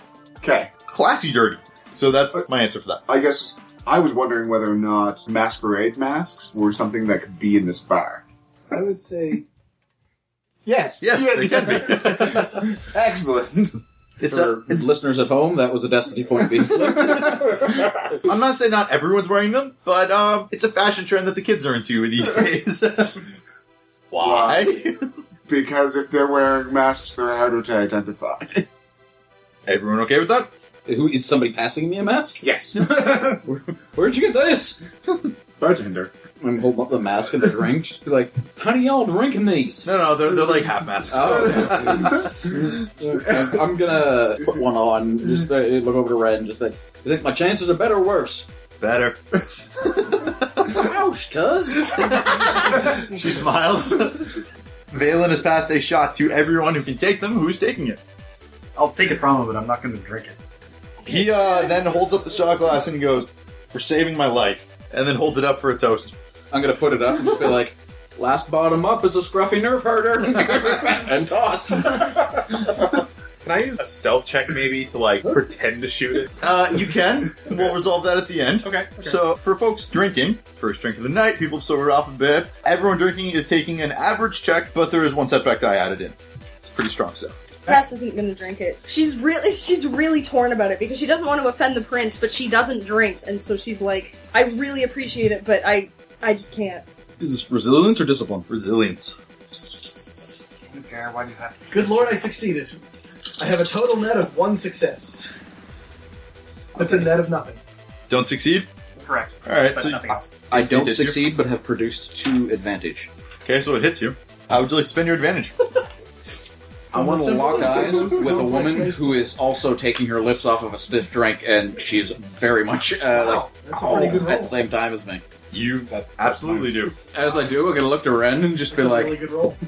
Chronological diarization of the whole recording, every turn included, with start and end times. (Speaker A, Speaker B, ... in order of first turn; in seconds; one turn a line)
Speaker A: 0.4-0.7
Speaker B: 0.9-3.0
Speaker A: 3.1-9.4
Speaker C: 8.7-9.4
Speaker A: 10.6-13.8
Speaker B: 11.0-12.7
Speaker B: 14.2-14.8
Speaker D: 14.2-17.7
Speaker A: 16.7-17.8
Speaker B: 18.2-23.2
Speaker B: 24.1-25.0
Speaker A: 24.2-24.7
Speaker A: 25.5-28.6
Speaker B: 29.6-30.5
Speaker D: 30.9-34.8
Speaker A: 32.4-33.4
Speaker A: 35.6-36.1
Speaker D: 36.4-39.9
Speaker B: 39.8-42.2
Speaker D: 41.1-48.5
Speaker B: 48.8-49.2
Speaker B: 49.8-50.8
Speaker D: 50.6-52.7
Speaker B: 51.8-58.0
Speaker E: 58.8-60.4
Speaker B: 61.0-66.1
Speaker D: 66.5-72.6
Speaker F: 73.4-76.3
Speaker B: 76.4-87.5
Speaker F: 78.6-79.0
Speaker G: 87.7-96.8
Speaker D: 97.2-98.5
Speaker B: 98.5-99.2
Speaker E: 100.6-102.2
Speaker C: 101.7-102.8
Speaker C: 103.4-105.3
Speaker C: 106.7-107.6
Speaker B: 108.1-108.7
Speaker E: 109.0-110.4
Speaker B: 109.4-111.2
Speaker D: 110.5-113.1
Speaker B: 113.4-115.7
Speaker C: 116.9-119.2
Speaker D: 116.9-125.2
Speaker C: 123.1-124.5
Speaker B: 125.5-126.9
Speaker F: 125.9-126.8
Speaker D: 127.1-129.2
Speaker C: 128.7-129.6